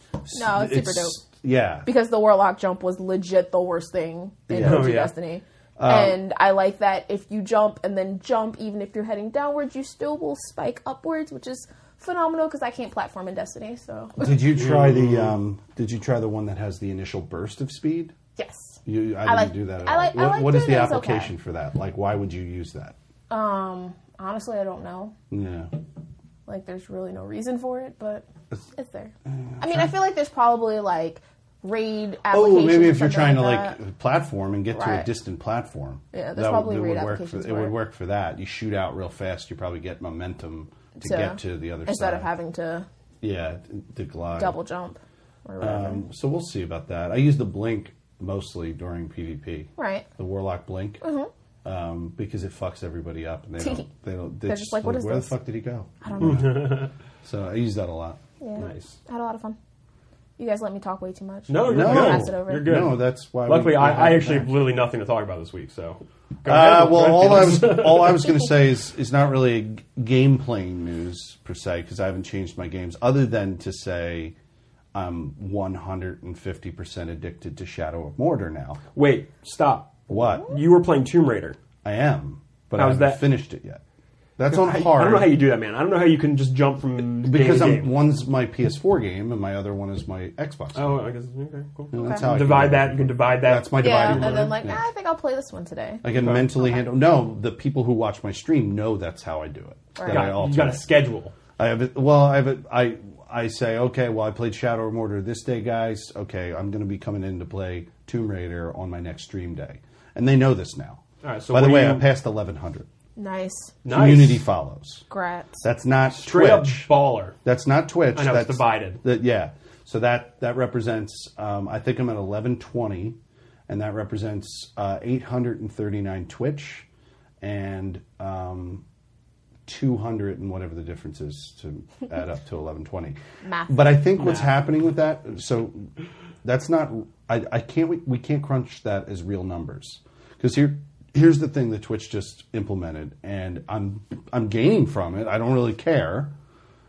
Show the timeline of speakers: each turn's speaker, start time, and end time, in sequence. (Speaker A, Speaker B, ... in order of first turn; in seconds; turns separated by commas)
Speaker A: 0.2-1.9, Speaker B: 0.3-1.2, Speaker B: 1.8-14.4, Speaker A: 4.5-4.9, Speaker C: 4.6-5.1, Speaker A: 5.8-6.2, Speaker A: 14.2-18.1, Speaker C: 14.5-15.3, Speaker B: 18.4-21.3, Speaker A: 18.9-22.9, Speaker B: 23.3-25.1, Speaker A: 25.3-25.7, Speaker B: 26.5-33.8, Speaker A: 29.3-29.9, Speaker A: 32.3-42.3, Speaker B: 34.7-35.1, Speaker B: 36.1-37.8, Speaker B: 41.0-42.9, Speaker A: 43.2-44.6, Speaker B: 44.4-46.0, Speaker A: 45.6-51.0, Speaker B: 49.8-50.1, Speaker B: 51.0-51.3, Speaker A: 51.6-58.2, Speaker B: 53.6-53.9, Speaker B: 54.5-55.3, Speaker B: 56.0-56.5, Speaker C: 56.2-56.9, Speaker B: 58.4-59.6, Speaker C: 58.6-59.0, Speaker B: 60.4-62.7, Speaker C: 61.5-68.3, Speaker A: 61.6-64.5, Speaker A: 66.4-74.3, Speaker A: 74.9-78.8, Speaker C: 78.9-81.6, Speaker A: 80.1-80.5, Speaker A: 81.8-83.8, Speaker C: 82.8-83.2, Speaker A: 84.4-85.3, Speaker C: 84.5-87.9, Speaker A: 87.2-91.0, Speaker C: 90.7-94.5, Speaker A: 91.9-94.8, Speaker B: 91.9-92.2, Speaker B: 93.8-96.0, Speaker A: 96.0-100.8, Speaker C: 96.1-96.5, Speaker B: 96.6-96.8, Speaker B: 100.0-100.3, Speaker C: 100.0-101.3, Speaker A: 101.6-112.9, Speaker C: 111.2-112.0, Speaker B: 113.2-113.7, Speaker C: 113.8-114.4, Speaker A: 113.9-115.0, Speaker B: 115.1-115.6, Speaker A: 115.6-116.9, Speaker C: 116.1-117.3, Speaker A: 117.4-123.2, Speaker C: 118.1-119.0, Speaker A: 123.7-126.8, Speaker A: 127.4-128.8, Speaker A: 129.7-133.2, Speaker B: 133.4-134.0, Speaker A: 133.7-135.9, Speaker C: 134.2-134.5, Speaker A: 136.4-146.3